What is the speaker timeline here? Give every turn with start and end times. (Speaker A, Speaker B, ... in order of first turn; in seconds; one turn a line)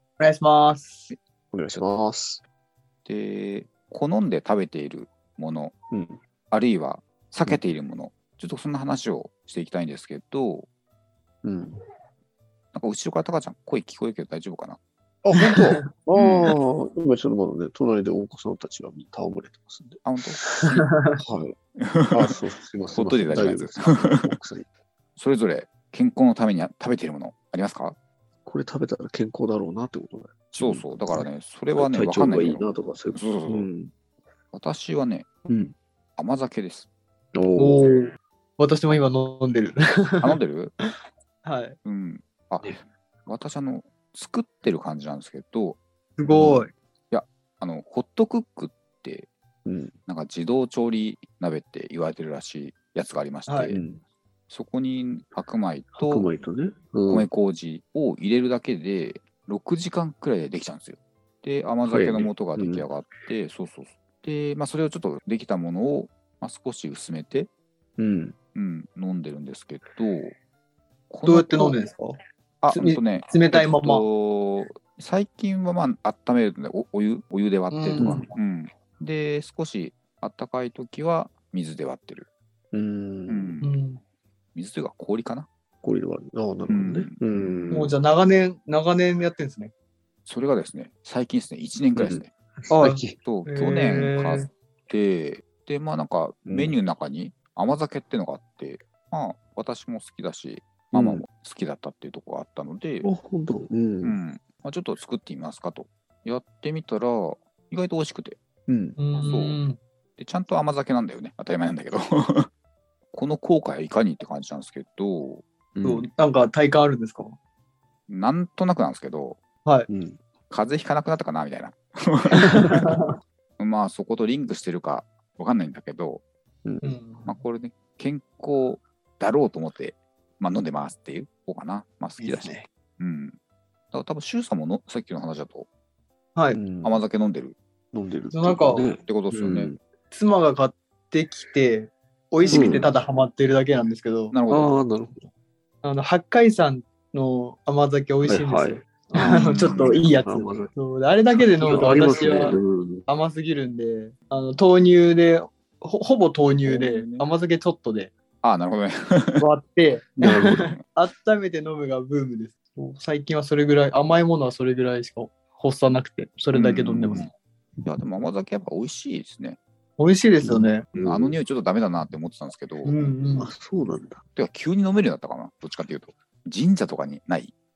Speaker A: 0.2-1.1
Speaker B: 1.5-2.4
Speaker C: 3.1-5.7
Speaker B: 5.9-6.2
Speaker C: 6.5-10.7
Speaker B: 11.4-11.8
Speaker C: 12.7-14.8
Speaker B: 15.2-20.0
Speaker C: 16.1-16.6
Speaker C: 20.0-20.6
Speaker A: 20.6-21.2
Speaker B: 21.2-21.6
Speaker C: 21.9-22.3
Speaker B: 22.1-24.7
Speaker C: 22.9-24.2
Speaker C: 25.2-28.0
Speaker B: 28.4-33.9
Speaker C: 30.5-33.7
Speaker C: 34.5-35.2
Speaker B: 35.5-35.8
Speaker C: 36.2-36.9
Speaker B: 37.3-38.0
Speaker A: 37.6-40.4
Speaker C: 40.2-40.7
Speaker A: 41.4-41.8
Speaker C: 41.8-49.3
Speaker A: 46.2-46.7
Speaker B: 49.6-50.0
Speaker C: 50.1-53.8
Speaker A: 53.5-53.8
Speaker B: 53.7-54.0
Speaker C: 54.5-56.3
Speaker B: 56.0-57.3
Speaker C: 57.1-67.5
Speaker B: 61.9-62.9
Speaker B: 68.0-68.4
Speaker C: 68.5-70.3
Speaker C: 71.1-71.8
Speaker A: 71.3-72.2
Speaker C: 72.6-82.3
Speaker A: 72.7-74.0
Speaker A: 77.7-78.3
Speaker B: 78.0-78.3
Speaker B: 82.7-83.6
Speaker C: 83.3-83.7
Speaker A: 83.6-84.0
Speaker C: 84.5-85.5
Speaker B: 85.8-88.0
Speaker C: 86.7-87.9
Speaker A: 87.7-89.7
Speaker C: 90.3-92.3
Speaker B: 92.0-93.2
Speaker A: 92.7-94.5
Speaker C: 93.2-103.1
Speaker B: 96.5-96.8
Speaker B: 100.9-101.2
Speaker B: 103.0-104.2
Speaker C: 104.0-108.4
Speaker B: 108.7-109.0
Speaker A: 109.0-109.8
Speaker C: 109.2-109.6
Speaker C: 110.2-112.5
Speaker C: 113.1-115.4
Speaker B: 115.8-116.1
Speaker A: 115.8-117.4
Speaker C: 118.1-119.4
Speaker B: 119.9-120.2
Speaker C: 120.5-122.9
Speaker A: 122.4-123.1
Speaker C: 123.6-126.2
Speaker B: 126.7-127.0
Speaker A: 126.8-127.4
Speaker C: 127.3-133.4
Speaker A: 132.2-132.7
Speaker C: 133.9-135.7
Speaker B: 136.5-137.0
Speaker C: 136.8-137.6
Speaker B: 137.9-139.8
Speaker A: 138.3-138.9
Speaker C: 139.0-139.7
Speaker A: 140.1-144.3
Speaker C: 142.4-142.9
Speaker B: 142.5-142.9
Speaker C: 144.3-144.8
Speaker B: 144.5-145.3
Speaker A: 145.8-158.1
Speaker B: 148.2-150.7
Speaker C: 149.2-150.0
Speaker B: 151.3-153.1
Speaker C: 151.8-152.6
Speaker C: 156.6-157.3
Speaker C: 158.4-159.4
Speaker A: 159.4-167.3
Speaker B: 160.2-160.7
Speaker C: 160.4-160.8
Speaker C: 166.5-167.3
Speaker C: 167.8-169.6
Speaker A: 170.0-170.8
Speaker B: 170.4-171.4
Speaker C: 170.9-173.0
Speaker A: 172.8-173.5
Speaker B: 173.4-174.2
Speaker C: 174.3-177.5